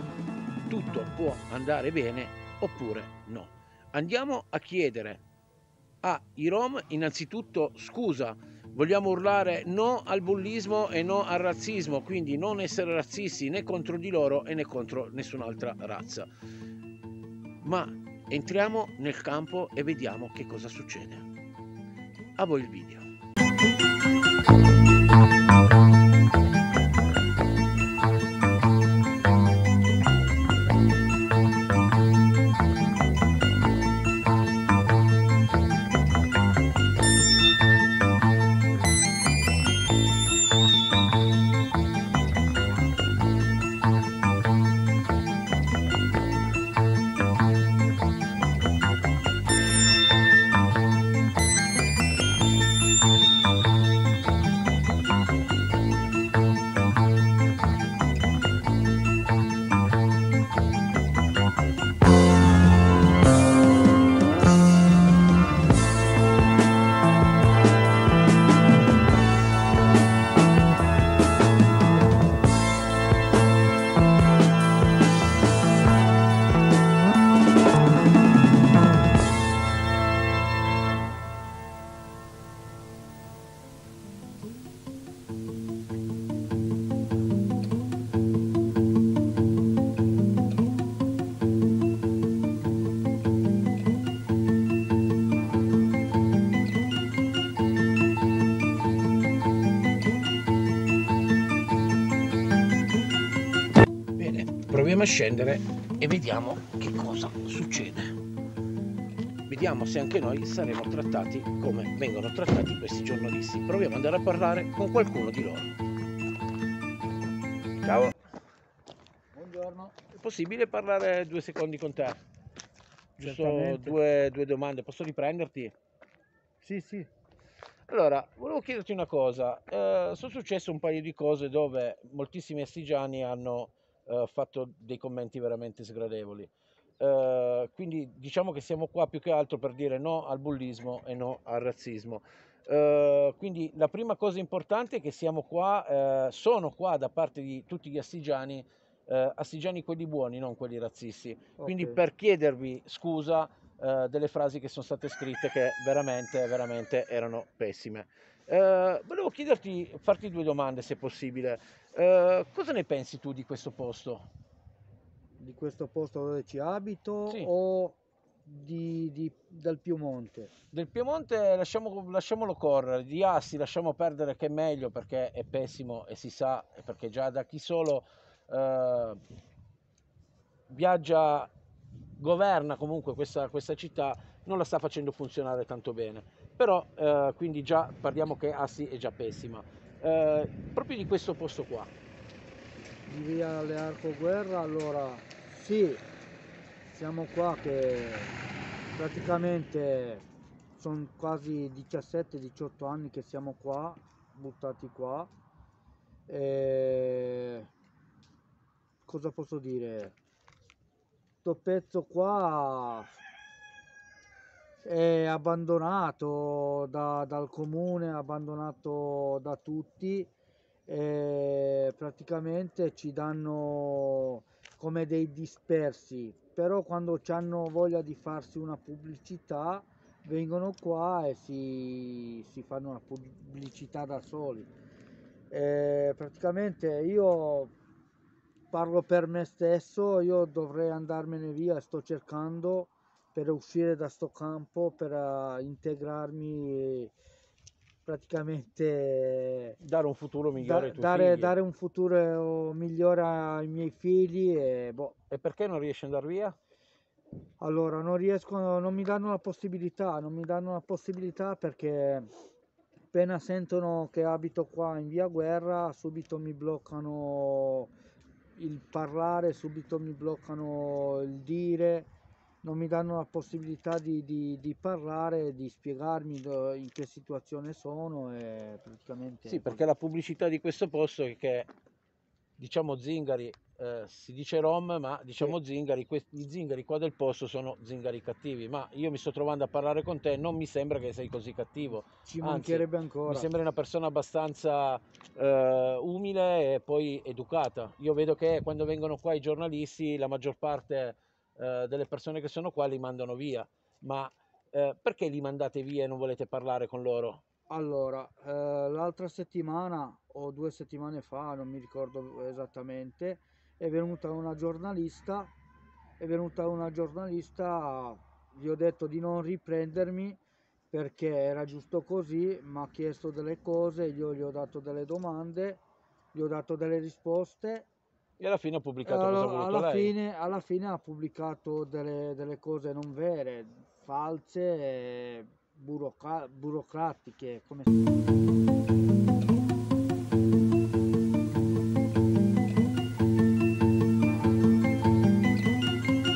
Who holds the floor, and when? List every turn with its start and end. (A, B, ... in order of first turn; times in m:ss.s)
0:00.7-0:05.2 A
0:06.0-0:16.3 A
0:17.6-0:21.3 A
0:22.4-0:23.0 A
1:44.2-1:48.2 A
1:49.5-1:55.7 A
1:57.8-1:58.1 A
1:59.3-1:59.9 B
2:00.1-2:02.2 A
2:03.2-2:05.7 A
2:03.2-2:04.0 B
2:06.6-2:07.1 B
2:07.9-2:44.2 A
2:31.6-2:32.0 B
2:45.4-2:50.5 B
2:50.7-2:59.2 A
3:00.7-3:01.5 A
3:02.2-3:11.9 A
3:13.0-3:16.0 B
3:16.9-3:18.3 B
3:18.9-3:25.3 B
3:26.3-3:27.7 B
3:29.0-3:30.2 B
3:31.4-3:33.1 B
3:34.8-3:40.3 B
3:40.9-3:54.7 B
3:55.5-3:57.7 B
3:58.7-4:07.1 B
4:08.0-4:09.8 B
4:09.8-4:11.5 A
4:10.6-4:15.2 B
4:15.3-4:16.5 A
4:17.6-4:22.3 B
4:23.1-4:27.9 B
4:28.6-4:32.1 B
4:32.6-4:39.8 B
4:39.5-4:41.7 A
4:42.6-5:07.4 A
4:52.2-4:53.5 B
5:07.7-5:15.5 B
5:16.2-5:20.4 B
5:20.9-5:25.8 B
5:26.3-5:27.9 B
5:28.4-5:30.1 A
5:29.0-5:37.9 B